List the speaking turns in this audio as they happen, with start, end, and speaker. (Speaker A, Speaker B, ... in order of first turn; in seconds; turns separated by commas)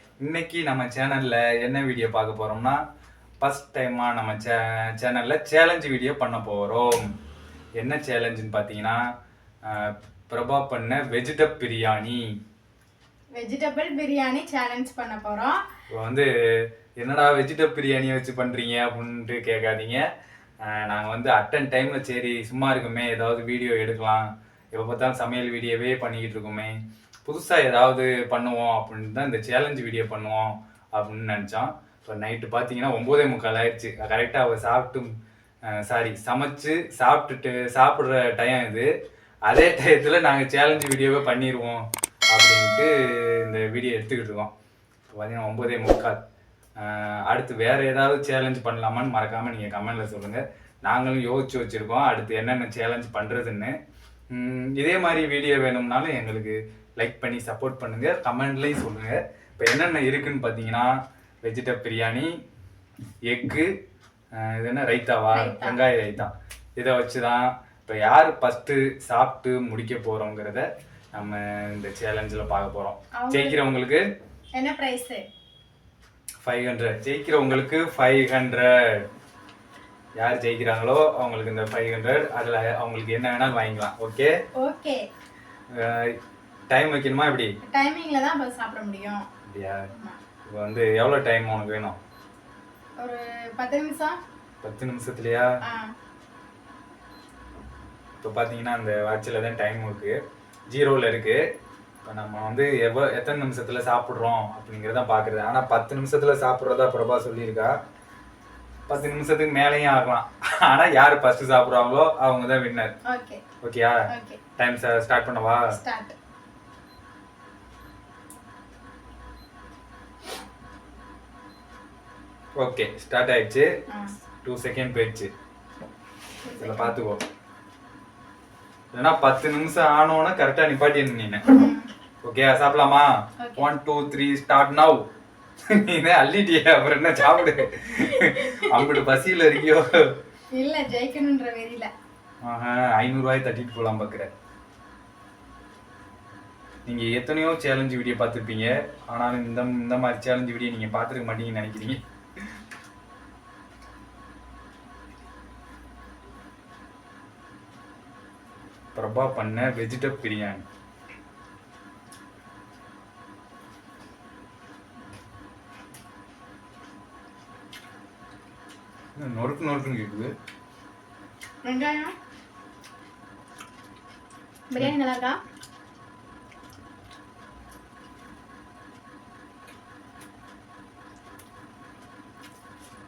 Speaker A: 0.2-2.8, Speaker A: 3.4-7.1, Speaker A: 7.8-9.0, Speaker A: 9.7-12.2, Speaker B: 13.4-15.6, Speaker A: 15.9-16.3, Speaker A: 17.0-20.0, Speaker A: 20.6-26.7, Speaker A: 27.2-35.1, Speaker A: 35.7-38.9, Speaker A: 39.5-44.5, Speaker A: 45.1-46.2, Speaker A: 46.8-53.7, Speaker A: 54.3-60.9, Speaker A: 61.4-62.3, Speaker A: 63.3-63.7, Speaker A: 64.3-74.0, Speaker B: 65.3-65.8, Speaker B: 73.2-73.6, Speaker B: 74.5-75.2, Speaker A: 76.4-79.0, Speaker A: 80.2-84.3, Speaker B: 84.6-85.0, Speaker A: 85.7-86.2, Speaker A: 86.7-87.5, Speaker B: 87.7-89.2, Speaker A: 89.5-89.8, Speaker A: 90.5-92.0, Speaker B: 93.0-94.2, Speaker A: 94.6-95.5, Speaker A: 98.2-100.2, Speaker A: 100.7-101.4, Speaker A: 102.0-107.7, Speaker A: 108.9-112.9, Speaker B: 113.1-113.4, Speaker A: 113.6-114.0, Speaker B: 114.1-114.4, Speaker A: 114.6-115.7, Speaker B: 115.7-116.1, Speaker A: 122.6-123.7, Speaker A: 124.4-125.3, Speaker B: 126.4-127.0, Speaker A: 126.6-127.2, Speaker A: 128.9-131.4, Speaker B: 131.5-131.9, Speaker A: 132.2-135.1, Speaker B: 133.4-133.7, Speaker A: 135.7-140.1, Speaker B: 138.2-138.9, Speaker B: 140.5-141.9, Speaker A: 142.4-144.3, Speaker A: 146.8-152.0, Speaker A: 158.9-160.6, Speaker A: 169.2-170.3, Speaker B: 171.6-172.1, Speaker B: 174.7-175.4